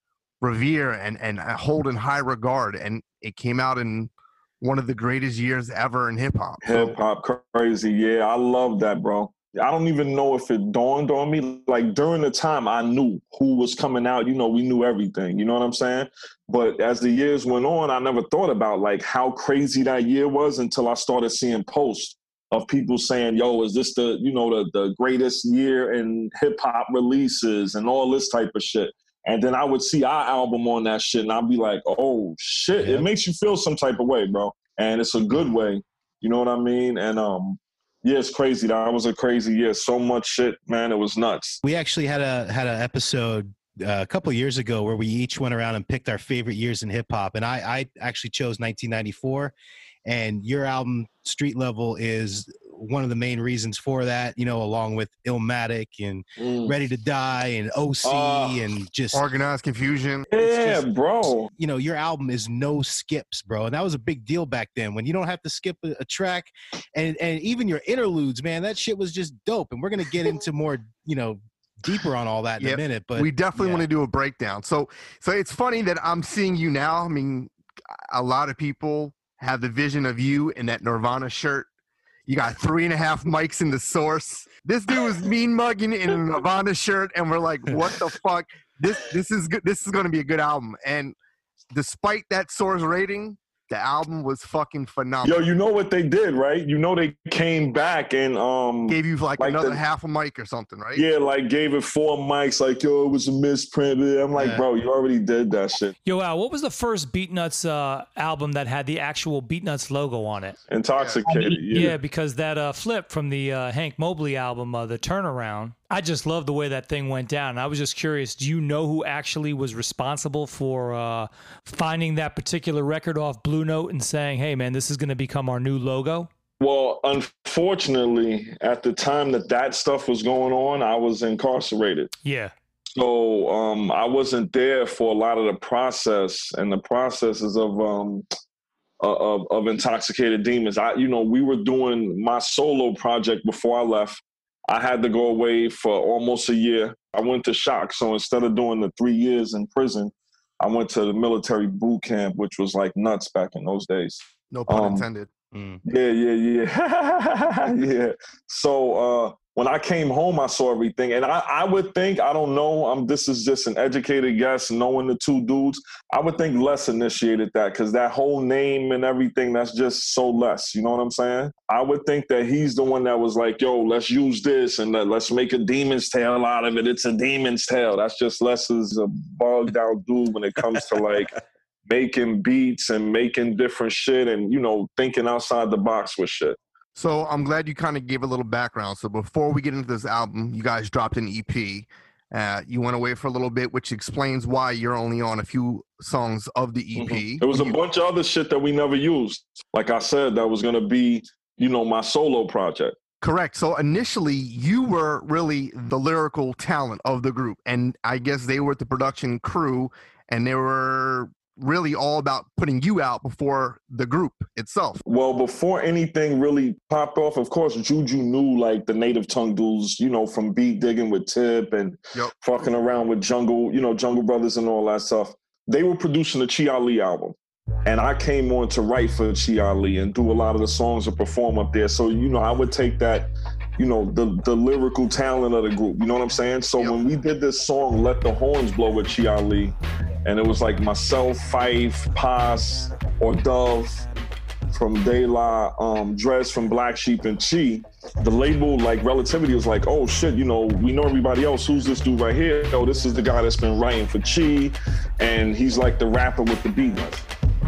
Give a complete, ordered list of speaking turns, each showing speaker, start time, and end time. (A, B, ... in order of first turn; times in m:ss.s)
0:00.4-0:07.0 A
0:06.6-0:41.6 B
0:32.8-0:33.1 C
0:41.6-0:49.5 C
0:50.0-0:59.2 C
0:56.4-0:56.7 B
0:58.0-0:58.6 B
0:59.1-1:00.3 A
1:00.3-1:01.5 B
1:00.4-1:00.8 C
1:01.6-1:13.9 C
1:12.6-1:17.5 A
1:18.1-1:21.7 A
1:22.3-1:31.1 A
1:31.7-1:35.4 A
1:35.2-1:39.8 B
1:38.9-1:41.1 A
1:40.9-1:45.9 B
1:44.4-1:44.6 C
1:46.0-1:50.6 D
1:50.7-1:52.0 B
1:51.2-2:06.3 D
2:06.6-2:12.1 B
2:12.2-2:12.5 D
2:13.0-2:18.2 B
2:19.0-2:35.1 B
2:34.5-2:35.3 A
2:35.5-2:35.8 C
2:35.8-3:01.3 B
3:01.8-3:06.6 B
3:06.9-3:17.8 A
3:17.0-3:22.9 B
3:23.2-3:35.0 A
3:35.0-4:04.0 B
4:04.7-4:17.2 B